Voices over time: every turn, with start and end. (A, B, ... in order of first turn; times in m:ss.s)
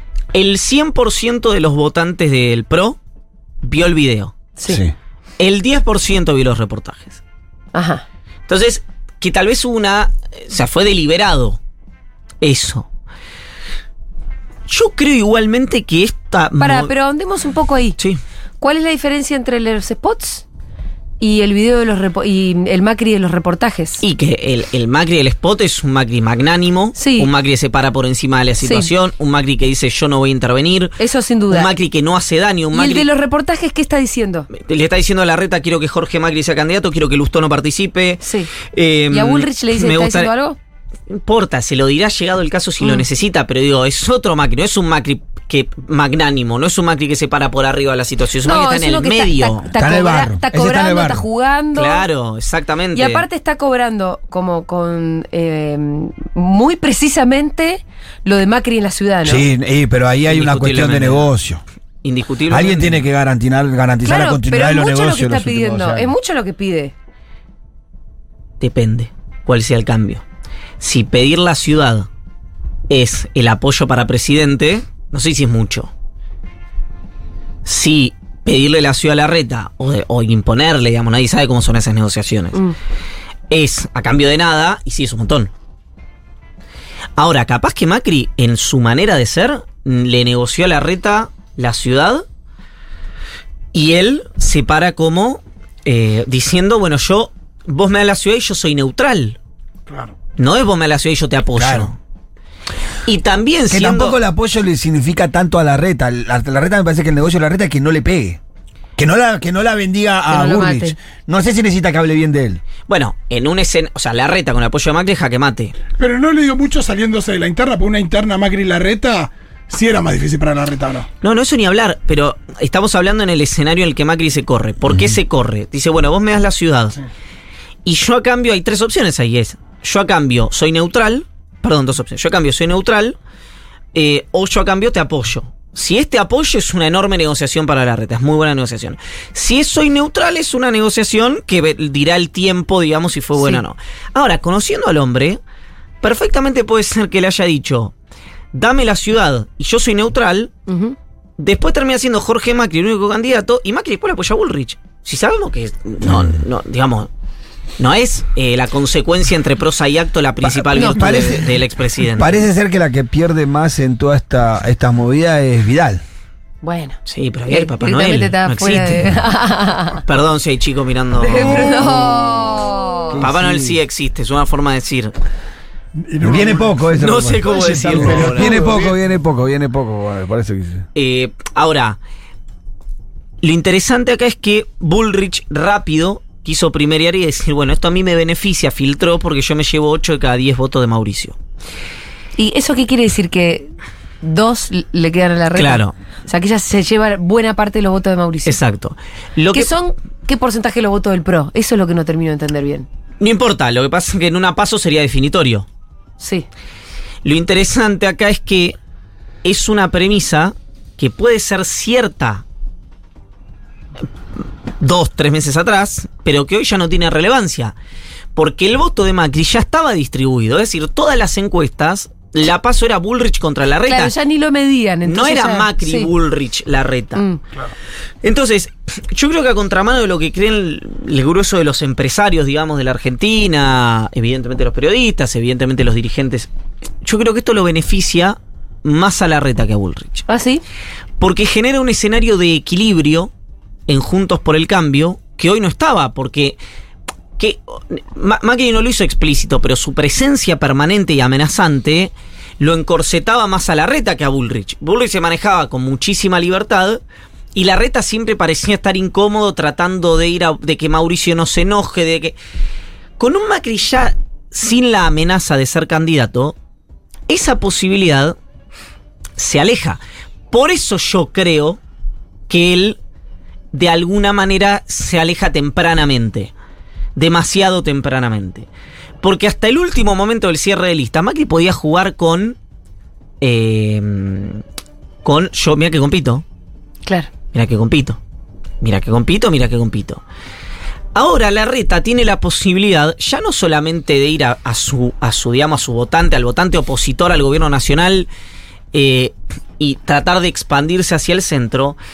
0:00.3-0:03.0 A
0:03.6-0:04.4 A
0:04.6-0:04.9 B
0:05.4-0:07.2 A
0:07.7-0:08.0 C
0:08.5-0:11.6 A
0:12.4-0:12.9 A
0:14.7-0:16.9 A
0:16.6-0:18.0 C
0:18.6-0:20.4 C
0:21.2-0:24.0 C
0:24.0-0:31.0 A
0:27.0-0:27.3 C
0:28.6-0:28.9 C
0:31.0-0:31.7 C
0:31.5-0:33.1 A
0:32.7-0:34.5 C
0:34.5-0:40.3 A
0:38.2-0:38.5 C
0:39.1-0:40.6 C
0:41.1-0:49.7 A
0:48.4-0:52.0 C
0:49.7-0:51.2 B
0:51.7-0:53.2 A
0:52.9-0:59.4 C
0:59.2-1:01.6 B
1:00.3-1:01.3 A
1:02.0-1:03.0 A
1:02.5-1:06.1 B
1:04.0-1:06.9 C
1:08.6-1:10.2 A
1:10.8-1:12.1 A
1:12.9-1:15.9 A
1:17.6-1:22.6 A
1:23.5-1:25.5 A
1:27.2-1:32.2 A
1:33.7-1:39.4 A
1:39.9-1:40.1 D
1:40.4-1:42.0 A
1:41.6-1:41.9 B
1:43.0-1:44.2 A
1:43.7-1:48.4 B
1:49.0-1:52.6 B
1:50.3-1:51.0 C
1:52.9-1:55.7 A
1:56.0-2:01.1 D
2:01.2-2:07.0 A
2:04.9-2:05.1 B
2:07.8-2:13.2 A
2:13.9-2:25.4 A
2:23.4-2:23.6 C
2:26.0-2:27.9 A
2:28.5-2:30.5 A
2:30.7-2:31.0 C
2:31.4-2:37.1 A
2:36.0-2:36.4 B
2:37.8-2:42.4 A
2:40.4-2:46.0 B
2:40.7-2:41.4 C
2:46.6-2:47.0 C
2:47.1-2:49.0 A
2:47.5-2:50.0 C
2:50.0-2:51.8 A
2:51.2-2:53.2 C
2:51.6-2:52.4 B
2:53.1-2:53.8 B
2:53.1-2:55.1 A
2:56.0-2:56.9 D
2:56.2-3:00.8 B
2:57.0-2:58.6 A
2:57.4-2:59.0 D
3:01.0-3:02.0 A
3:03.4-3:11.4 A
3:12.4-3:13.7 C
3:14.2-3:18.6 C
3:15.5-3:15.9 A
3:18.4-3:19.7 A
3:19.5-3:22.9 C
3:23.2-3:25.6 A
3:26.2-3:26.4 C
3:27.2-3:28.8 A
3:29.4-3:32.4 A
3:34.8-3:37.7 A
3:38.3-3:44.1 A
3:43.8-3:46.1 C
3:45.0-3:47.2 A
3:47.1-3:47.4 C
3:48.2-3:56.5 A
3:57.0-4:00.2 A
4:00.3-4:00.6 C
4:01.2-4:03.3 A
4:03.9-4:06.6 A
4:07.4-4:17.0 A
4:17.5-4:22.4 A
4:23.2-4:26.5 A
4:27.3-4:28.4 A
4:29.4-4:30.0 A
4:30.5-4:31.8 A
4:32.5-4:33.0 A
4:33.7-4:36.5 A
4:37.2-4:38.7 A
4:39.2-4:42.6 A
4:43.4-4:44.6 A
4:45.2-4:46.4 A
4:47.5-4:48.2 A
4:48.8-4:50.2 A
4:51.1-4:58.3 A
4:58.9-5:02.0 A